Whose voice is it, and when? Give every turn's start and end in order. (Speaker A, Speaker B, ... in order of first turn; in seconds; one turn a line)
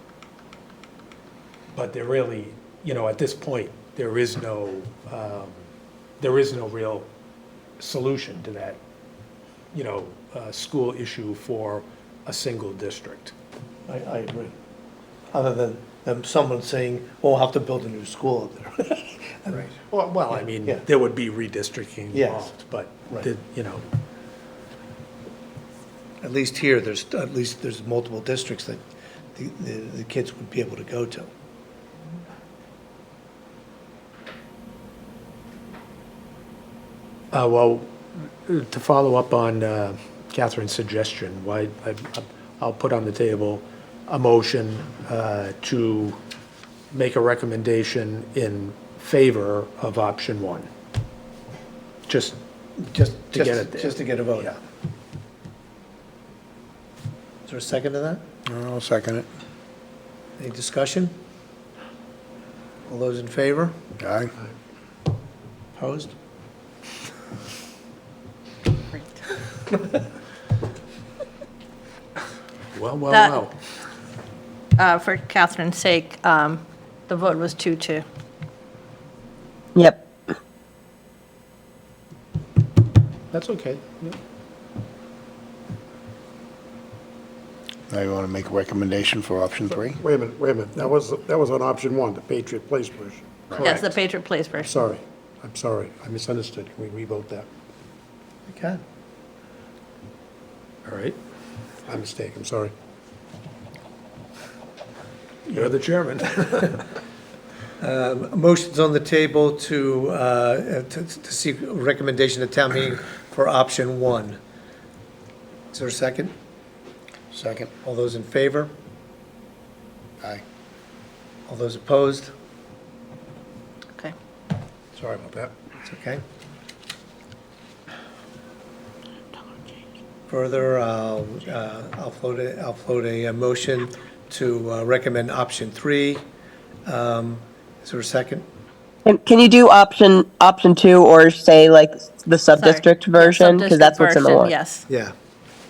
Speaker A: 1.7-5.6
Speaker A: 6.2-7.1
Speaker A: 7.8-8.8
Speaker A: 9.7-13.3
Speaker B: 13.9-14.5
Speaker B: 15.3-19.7
Speaker A: 19.6-23.8
Speaker B: 20.4-20.9
Speaker B: 22.1-22.5
Speaker B: 26.2-28.8
Speaker B: 29.4-31.3
Speaker A: 37.3-46.2
Speaker A: 46.9-50.7
Speaker A: 52.1-52.4
Speaker B: 52.8-54.6
Speaker A: 53.3-54.5
Speaker B: 57.5-58.2
Speaker C: 58.5-59.3
Speaker B: 60.4-61.1
Speaker B: 62.9-63.8
Speaker C: 64.0-64.3
Speaker B: 65.8-66.1
Speaker A: 72.7-73.6
Speaker D: 73.1-73.4
Speaker D: 74.8-78.0
Speaker E: 79.7-80.0
Speaker A: 83.3-84.2
Speaker C: 87.9-90.0
Speaker F: 89.7-94.0
Speaker D: 93.6-94.8
Speaker F: 94.5-97.5
Speaker B: 98.5-98.8
Speaker A: 100.8-101.2
Speaker F: 101.8-102.7
Speaker A: 105.5-106.8
Speaker B: 107.8-114.4
Speaker B: 115.7-116.3
Speaker C: 117.3-117.7
Speaker B: 117.8-118.7
Speaker B: 121.5-122.3
Speaker F: 124.9-125.5
Speaker B: 125.8-126.2
Speaker B: 130.3-136.2
Speaker B: 136.8-138.4
Speaker E: 139.0-144.5
Speaker D: 142.5-144.8